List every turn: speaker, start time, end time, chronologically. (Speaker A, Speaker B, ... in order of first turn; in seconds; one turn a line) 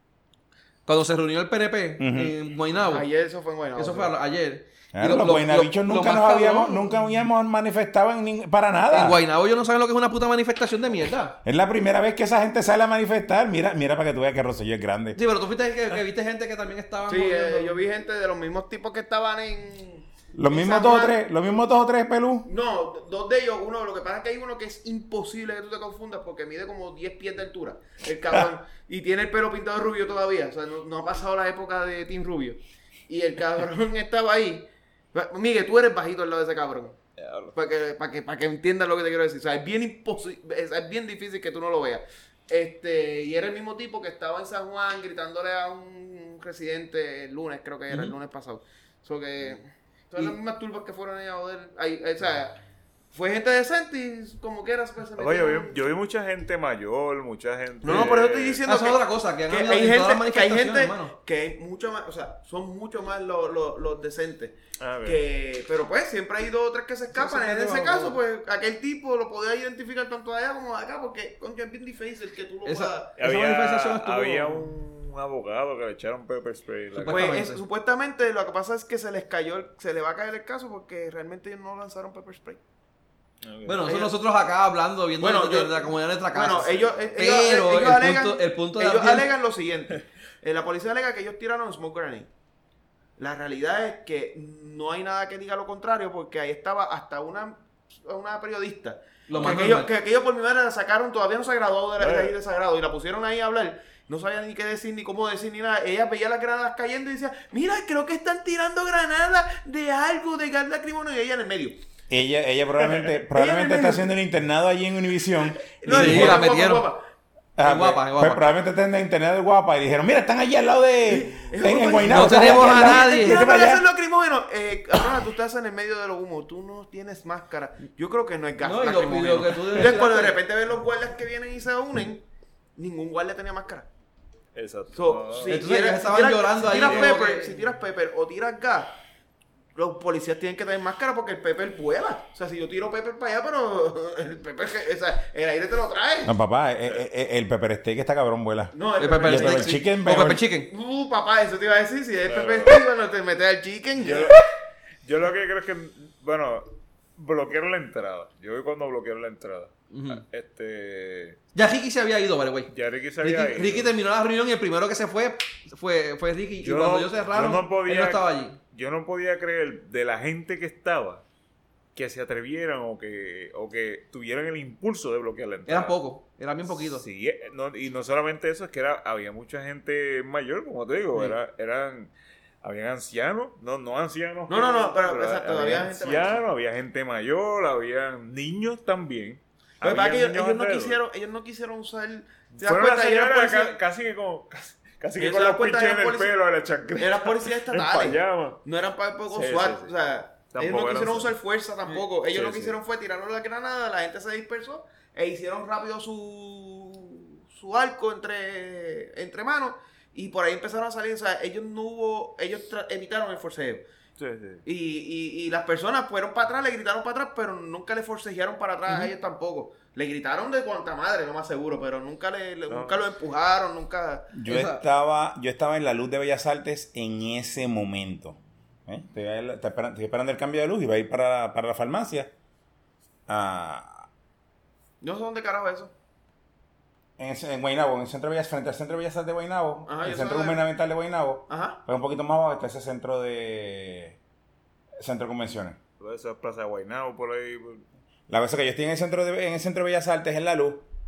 Speaker A: 0.9-3.1
Speaker B: 2.0-2.3
Speaker C: 2.8-4.1
Speaker A: 3.8-7.0
Speaker B: 4.9-9.2
Speaker A: 8.9-11.4
Speaker B: 11.4-15.2
Speaker A: 15.2-17.8
Speaker C: 17.1-21.2
Speaker B: 20.3-22.5
Speaker C: 22.4-37.0
Speaker D: 37.2-37.5
Speaker C: 37.5-52.6
Speaker C: 53.1-55.8
Speaker D: 55.2-58.6
Speaker C: 57.8-73.2
Speaker A: 58.6-61.1
Speaker D: 64.8-65.2
Speaker A: 67.1-68.2
Speaker A: 72.7-74.7
Speaker D: 73.2-77.3
Speaker A: 76.9-77.6
Speaker C: 77.1-82.6
Speaker D: 83.4-83.8
Speaker A: 83.7-89.3
Speaker C: 83.9-84.2
Speaker C: 85.2-92.3
Speaker C: 93.2-111.8
Speaker A: 99.3-99.9
Speaker D: 102.0-102.3
Speaker B: 112.1-116.5
Speaker C: 113.3-114.1
Speaker C: 115.7-117.0
Speaker A: 115.9-116.9
Speaker B: 117.6-123.9
Speaker A: 117.6-118.5
Speaker C: 121.1-132.2
Speaker A: 122.0-123.5
Speaker A: 128.6-130.4
Speaker C: 132.8-133.9
Speaker D: 134.6-135.7
Speaker C: 134.9-138.9
Speaker A: 135.5-137.6
Speaker D: 136.6-137.2
Speaker C: 139.8-146.3
Speaker B: 146.2-150.4
Speaker C: 148.7-149.8
Speaker A: 149.0-150.7
Speaker C: 150.7-154.4
Speaker D: 152.3-152.8
Speaker D: 154.0-154.4
Speaker D: 155.0-161.4
Speaker A: 159.9-160.2
Speaker A: 161.6-168.6
Speaker D: 162.7-163.9
Speaker D: 166.6-171.2
Speaker D: 171.9-175.9
Speaker A: 175.7-177.1
Speaker D: 176.8-182.1
Speaker D: 182.6-191.0
Speaker C: 184.5-186.4
Speaker C: 189.8-193.8
Speaker D: 192.5-198.6
Speaker C: 195.2-196.3
Speaker C: 197.0-213.8
Speaker D: 199.3-199.9
Speaker D: 200.5-201.3
Speaker D: 201.9-202.8
Speaker D: 214.2-214.6
Speaker C: 214.7-224.3
Speaker A: 218.9-219.1
Speaker D: 222.7-223.0
Speaker B: 224.3-232.3
Speaker A: 224.5-224.8
Speaker B: 233.3-234.1
Speaker C: 235.0-235.9
Speaker B: 237.2-244.2
Speaker C: 239.9-240.6
Speaker C: 241.5-241.8
Speaker B: 245.0-245.8
Speaker D: 246.0-247.8
Speaker B: 248.3-250.9